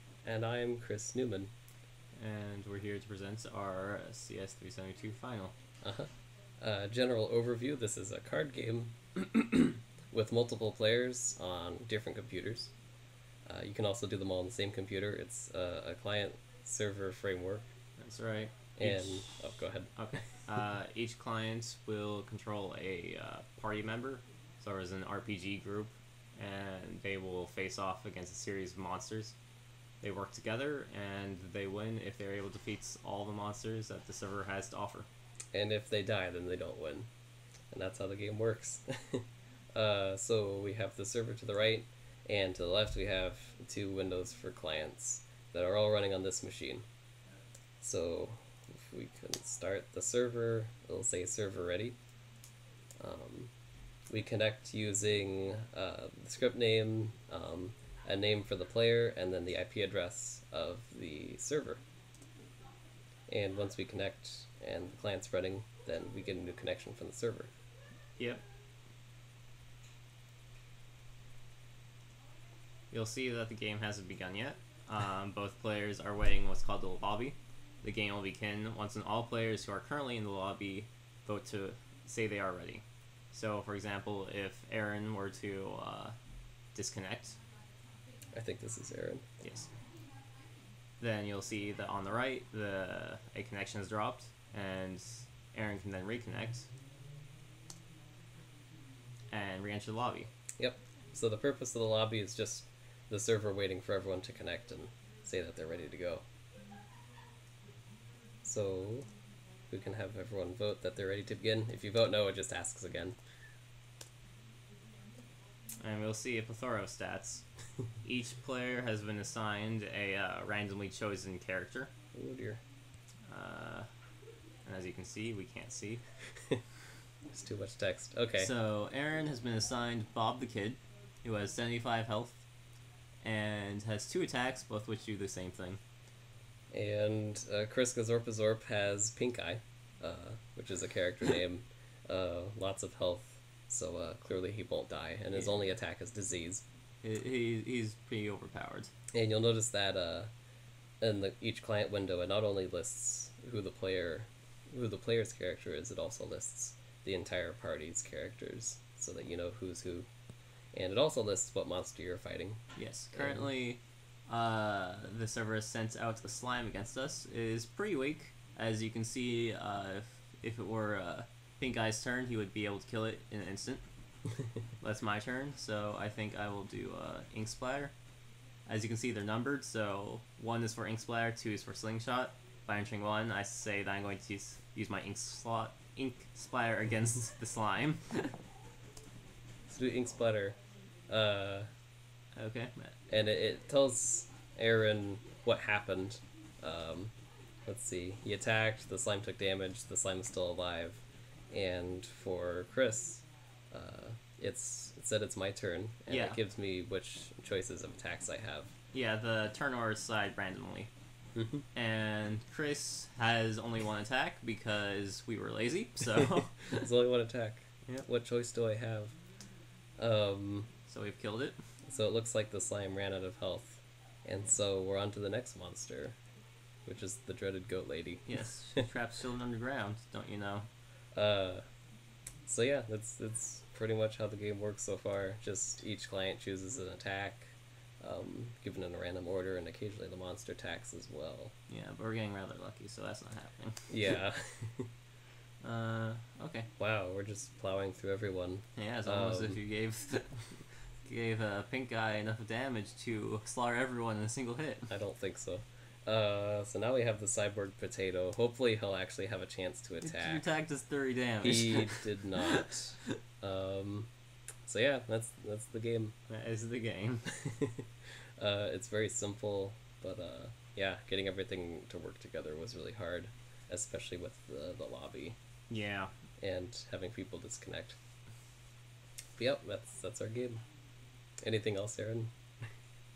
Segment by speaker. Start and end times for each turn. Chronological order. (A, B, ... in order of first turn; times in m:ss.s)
0:00.2-0:01.5 A
0:02.2-0:05.5 B
0:05.8-0:12.7 A
0:13.5-0:17.7 A
0:18.0-0:29.4 B
0:18.8-0:20.3 A
0:30.0-0:35.1 B
0:35.5-0:37.1 A
0:37.7-0:46.8 A
0:47.8-0:52.0 A
0:53.0-0:53.5 A
0:54.1-1:01.8 A
1:03.3-1:07.5 A
1:08.2-1:08.4 B
1:12.9-1:26.2 B
1:26.7-1:27.4 B
1:28.3-1:29.2 A
1:29.4-1:29.7 B
1:31.0-1:36.7 B
1:39.3-1:40.3 B
1:40.6-1:46.2 A
1:48.4-1:49.1 A
1:49.7-1:53.2 A
1:55.8-1:57.4 B
1:58.0-2:01.9 B
2:02.1-2:02.6 A
2:03.3-2:03.9 B
2:04.7-2:06.0 B
2:07.3-2:08.5 A
2:08.4-2:12.4 B
2:13.2-2:15.8 B
2:16.7-2:26.6 A
2:25.3-2:25.6 B
2:27.0-2:28.9 B
2:29.1-2:30.3 A
2:31.0-2:40.1 A
2:40.7-2:43.5 A
2:42.8-2:53.8 B
2:54.8-2:57.9 B
2:58.7-3:08.4 B
3:09.7-3:10.6 A
3:11.1-3:11.7 A
3:12.4-3:13.0 B
3:13.1-3:17.1 A
3:17.7-3:28.7 A
3:26.1-3:26.4 B
3:28.9-3:30.9 B
3:31.4-3:31.6 A
3:31.7-3:36.9 B
3:36.7-3:39.2 A
3:40.0-3:40.7 A
3:40.9-3:41.6 B
3:41.8-3:46.2 A
3:46.9-3:48.4 A
3:48.3-3:50.7 B
3:51.2-3:51.6 A
3:52.5-4:01.5 A
4:01.7-4:03.9 B
4:03.9-4:04.9 A
4:05.6-4:06.7 B
4:06.8-4:09.6 A
4:08.8-4:14.9 B
4:14.9-4:20.5 A
4:20.0-4:22.6 B
4:21.4-4:24.1 A
4:24.6-4:26.2 A
4:26.3-4:27.3 B
4:27.4-4:27.8 A
4:28.4-4:35.4 A
4:35.7-4:36.1 B
4:36.4-4:38.0 A
4:39.4-4:40.6 A
4:41.4-4:42.7 A